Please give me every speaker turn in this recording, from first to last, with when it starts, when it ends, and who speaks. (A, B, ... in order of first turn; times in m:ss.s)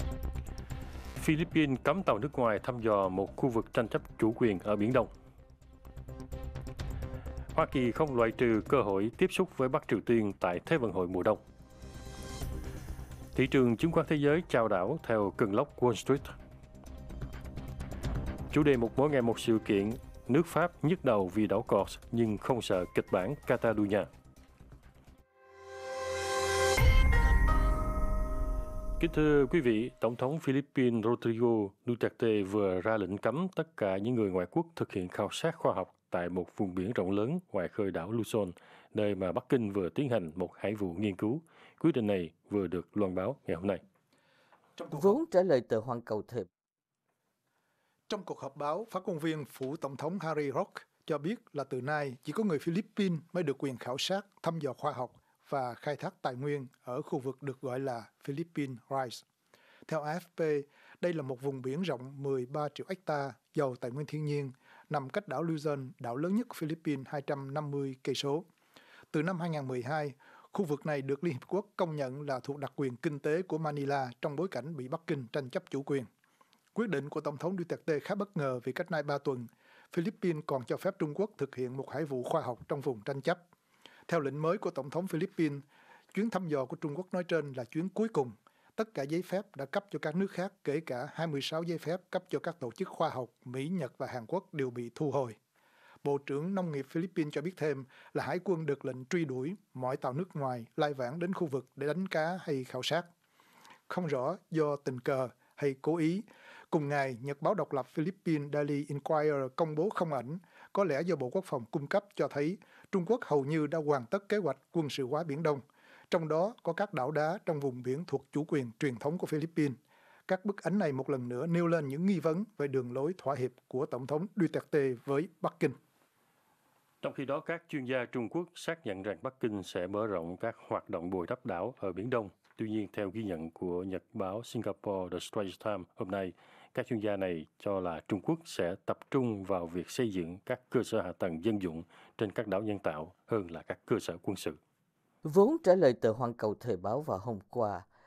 0:01.2-0:05.1 A
0:07.5-0:11.4 A
0:13.4-0:16.3 A
0:18.5-0:24.1 A
0:29.0-0:43.8 A
0:44.8-0:45.2 B
0:44.9-0:46.5 C
0:48.1-0:59.2 B
0:59.9-1:08.4 B
1:09.1-1:16.1 B
1:16.8-1:23.4 B
1:24.1-1:25.6 B
1:26.1-1:35.4 B
1:36.0-1:43.1 B
1:43.9-2:05.8 B
2:07.0-2:24.6 A
2:25.2-2:27.9 C